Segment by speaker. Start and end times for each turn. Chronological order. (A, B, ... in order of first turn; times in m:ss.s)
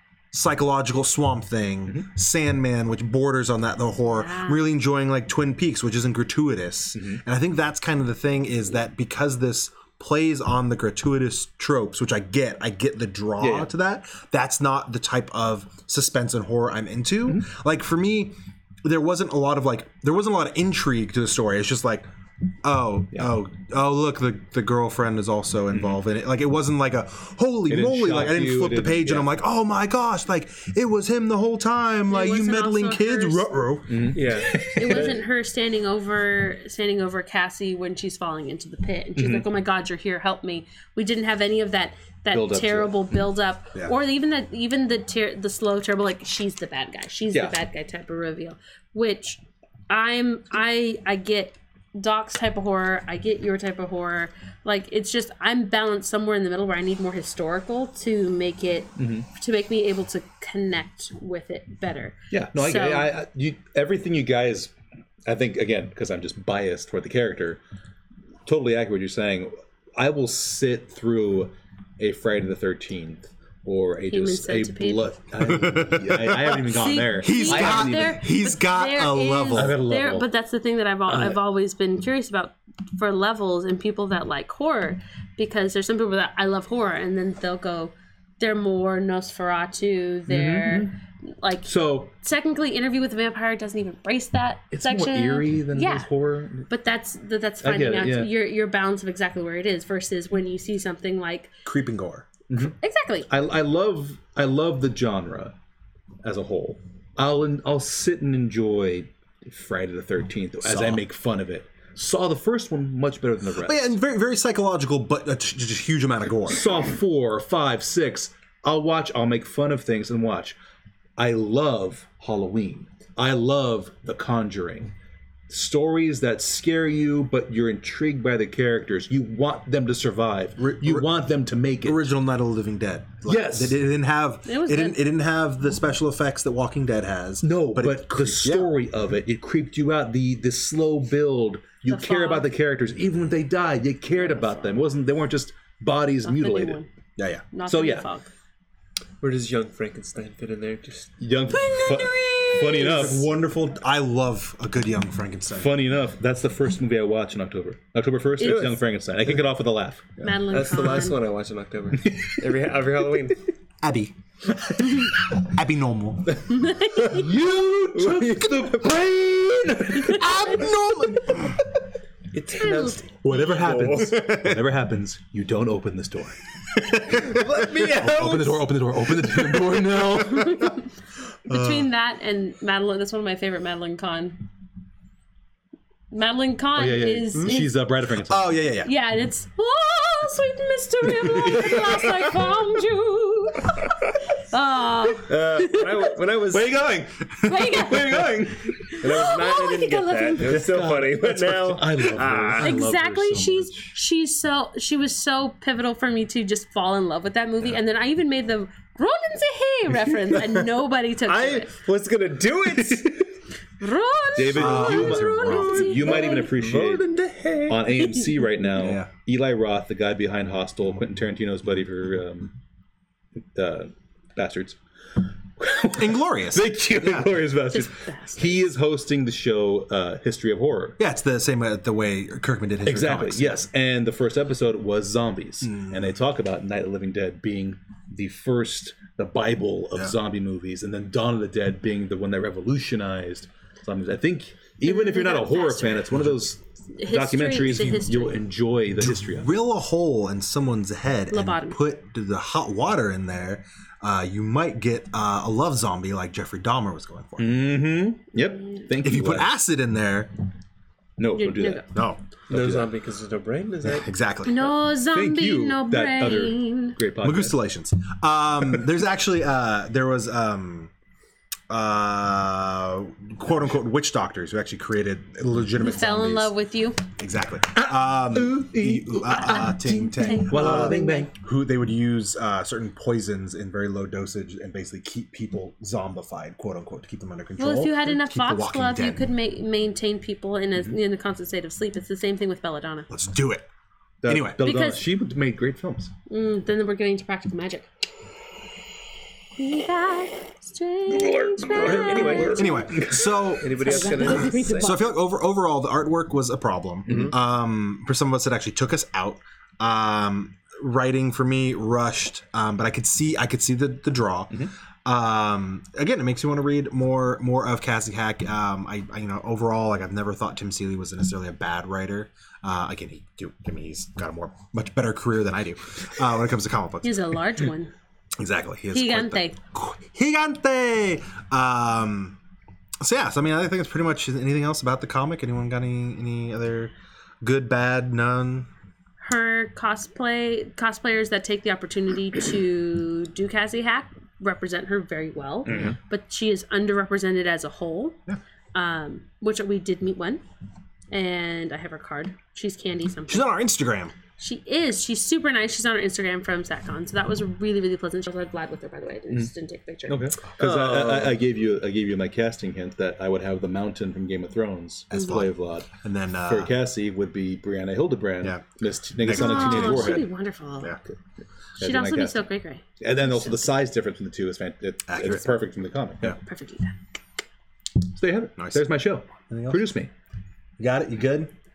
0:00.3-0:22.0 A
0:04.0-0:04.6 B
0:07.0-0:07.2 C
0:13.4-0:13.7 C
0:22.6-0:35.1 A
0:25.7-0:26.0 C
0:27.7-0:29.3 C
0:32.1-0:33.5 B
0:33.9-0:34.6 C
0:34.1-0:35.2 D
0:34.7-1:03.1 B
0:39.2-0:39.5 C
0:42.3-0:43.1 C
0:59.0-0:59.3 C
1:02.3-1:04.7 C
1:05.3-1:07.6 C
1:08.5-1:18.2 C
1:14.1-1:15.1 B
1:15.4-1:19.8 A
1:16.7-1:30.9 B
1:19.5-1:20.3 C
1:21.1-1:21.4 C
1:30.3-1:30.9 C
1:31.4-1:36.1 B
1:31.6-1:32.1 C
1:34.7-1:36.7 C
1:36.7-1:41.5 B
1:37.6-1:38.3 C
1:41.6-1:42.3 A
1:42.5-1:42.8 C
1:42.6-1:43.3 B
1:43.3-1:45.6 C
1:46.2-1:54.0 C
1:50.6-1:51.0 A
1:53.6-1:56.7 A
1:56.5-2:00.6 C
2:01.2-2:04.9 C
2:05.5-2:12.0 C
2:10.6-2:11.1 A
2:11.8-2:18.7 A
2:13.3-2:13.8 C
2:14.5-2:15.0 B
2:17.4-2:26.8 C
2:21.9-2:22.5 B
2:24.1-2:24.9 B
2:26.2-2:26.9 B
2:27.2-2:27.4 A
2:27.5-2:28.3 B
2:27.7-2:28.1 C
2:29.2-2:31.2 D
2:31.2-2:33.3 C
2:31.5-2:33.0 B
2:32.7-2:35.7 A
2:35.6-2:40.1 C
2:38.4-2:38.8 D
2:40.2-2:41.2 B
2:40.5-2:43.4 D
2:42.1-2:42.3 C
2:43.8-2:44.2 A
2:44.8-2:46.4 A
2:46.5-2:47.3 B
2:47.0-2:51.3 C
2:48.0-2:48.7 D
2:50.0-2:51.6 A
2:52.3-2:54.3 D
2:52.6-2:53.0 B
2:53.2-3:00.7 C
2:54.1-2:54.6 A
2:56.8-2:58.5 A
2:57.2-2:58.6 D
2:59.4-3:00.7 A
3:00.4-3:00.8 B
3:01.5-3:01.9 A
3:01.5-3:04.4 B
3:06.1-3:07.7 B
3:06.8-3:08.6 C
3:08.2-3:08.9 A
3:08.8-3:14.0 B
3:11.2-3:12.3 C
3:14.5-3:16.0 B
3:15.3-3:16.8 D
3:16.5-3:19.0 C
3:17.4-3:20.6 B
3:19.0-3:22.8 D
3:20.4-3:24.0 C
3:22.6-3:31.7 B
3:31.3-3:33.3 D
3:32.8-3:33.1 C
3:33.8-3:36.5 B
3:34.4-3:37.1 C
3:34.5-3:36.1 A
3:35.8-3:37.9 D
3:37.7-3:42.5 C
3:38.0-3:38.3 B
3:38.8-3:39.1 A
3:43.5-3:44.8 C
3:45.6-3:51.0 C
3:46.0-3:47.3 A
3:47.7-3:48.6 B
3:51.0-3:53.6 A
3:52.9-4:09.5 C
3:55.6-3:56.2 A
4:04.8-4:06.1 B
4:07.0-4:08.4 B
4:09.0-4:17.6 A
4:11.3-4:11.8 B
4:17.4-4:19.5 C
4:19.0-4:20.3 A
4:21.2-4:21.9 C
4:21.4-4:21.8 B
4:21.9-4:22.2 A
4:22.5-4:22.9 C
4:22.5-4:24.1 D
4:23.9-4:24.7 A
4:24.5-4:27.0 B
4:25.1-4:27.6 C
4:27.2-4:30.9 A
4:31.7-4:36.5 A
4:35.8-4:37.0 B
4:37.2-4:49.3 A
4:37.8-4:41.3 C
4:39.3-4:41.3 B
4:47.6-4:53.1 B
4:53.1-4:53.7 A
4:54.2-4:56.1 C
4:54.2-4:54.6 A
4:54.6-4:55.0 B
4:56.3-4:57.9 B
4:59.6-5:02.8 B
5:01.1-5:03.6 C
5:01.7-5:05.0 D
5:02.5-5:27.4 A
5:03.8-5:05.1 B
5:07.1-5:07.3 D
5:07.1-5:07.3 C
5:27.0-5:27.9 B
5:28.4-5:32.4 A
5:28.9-5:29.6 B
5:33.0-5:38.7 A
5:39.2-5:48.2 B
5:45.7-5:46.0 C
5:48.7-5:50.4 B
5:51.1-5:53.5 B
5:53.3-5:54.1 A
5:54.4-6:00.4 B
6:00.1-6:05.9 C
6:00.6-6:01.4 D
6:05.1-6:06.7 A
6:06.5-6:10.3 C
6:09.2-6:10.3 A
6:09.3-6:10.9 B
6:11.8-6:12.4 C
6:11.8-6:13.7 B
6:13.0-6:16.4 C
6:15.1-6:15.5 A
6:16.4-6:17.0 B
6:18.1-6:20.1 C
6:18.6-6:18.8 A
6:19.5-6:19.9 A
6:20.8-6:21.5 A